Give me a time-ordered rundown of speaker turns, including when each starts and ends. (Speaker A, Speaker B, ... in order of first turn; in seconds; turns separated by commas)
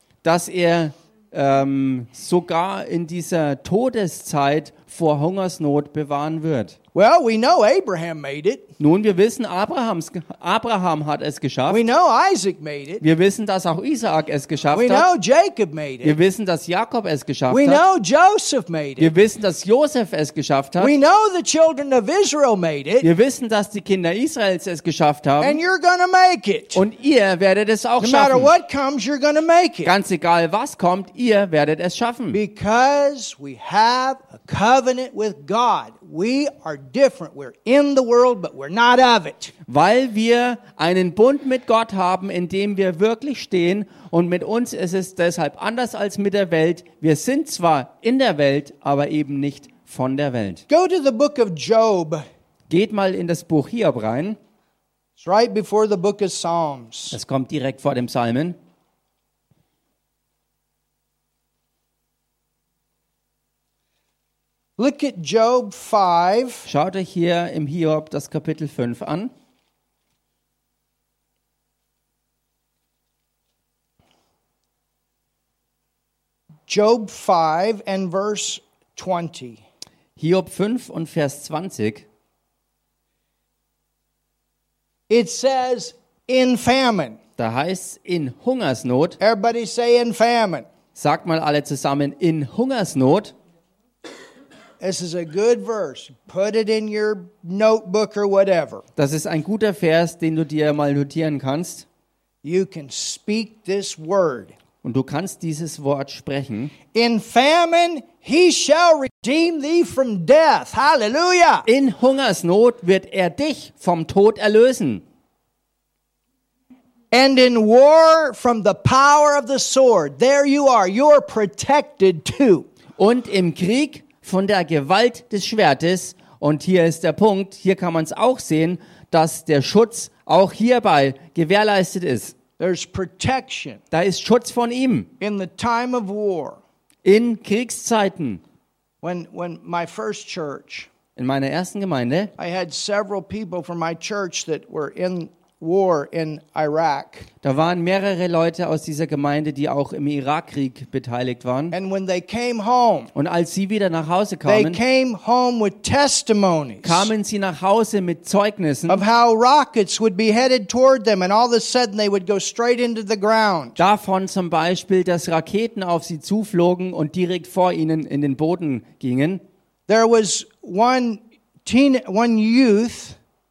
Speaker A: 0.2-6.8, Speaker B: 6.9-8.7, Speaker A: 8.8-11.8, Speaker B: 11.7-13.0, Speaker A: 13.0-15.1, Speaker B: 14.7-16.2, Speaker A: 16.0-17.8, Speaker B: 17.5-19.1, Speaker A: 19.0-20.9, Speaker B: 20.8-23.1, Speaker A: 23.0-25.6, Speaker B: 25.4-26.8, Speaker A: 26.7-28.5, Speaker B: 28.0-29.9, Speaker A: 29.8-32.4, Speaker B: 32.3-39.5, Speaker A: 39.7-50.6, Speaker B: 50.7-52.2, Speaker A: 52.7-54.4, Speaker B: 55.2-57.2, Speaker A: 57.1-58.6, Speaker B: 64.8-66.7, Speaker A: 66.7-69.3, Speaker B: 76.7-79.6, Speaker A: 80.2-82.1, Speaker B: 85.1-87.2, Speaker A: 87.4-89.2, Speaker B: 89.2-90.7, Speaker A: 91.0-93.3, Speaker B: 94.8-98.8, Speaker A: 99.0-101.8, Speaker B: 102.4-104.5, Speaker A: 104.8-106.7, Speaker B: 106.9-111.7, Speaker A: 111.7-115.0, Speaker B: 117.1-122.7, Speaker A: 123.0-132.4, Speaker B: 132.6-133.8, Speaker A: 133.9-135.1, Speaker B: 135.2-136.6, Speaker A: 137.0-138.4, Speaker B: 139.0-140.9, Speaker A: 141.2-142.3, Speaker B: 142.4-147.3, Speaker A: 147.4-151.8, Speaker B: 151.7-153.1, Speaker A: 153.2-154.8, Speaker B: 154.5-157.1, Speaker A: 156.8-159.0, Speaker B: 158.9-163.8, Speaker A: 163.8-169.4, Speaker B: 169.9-173.2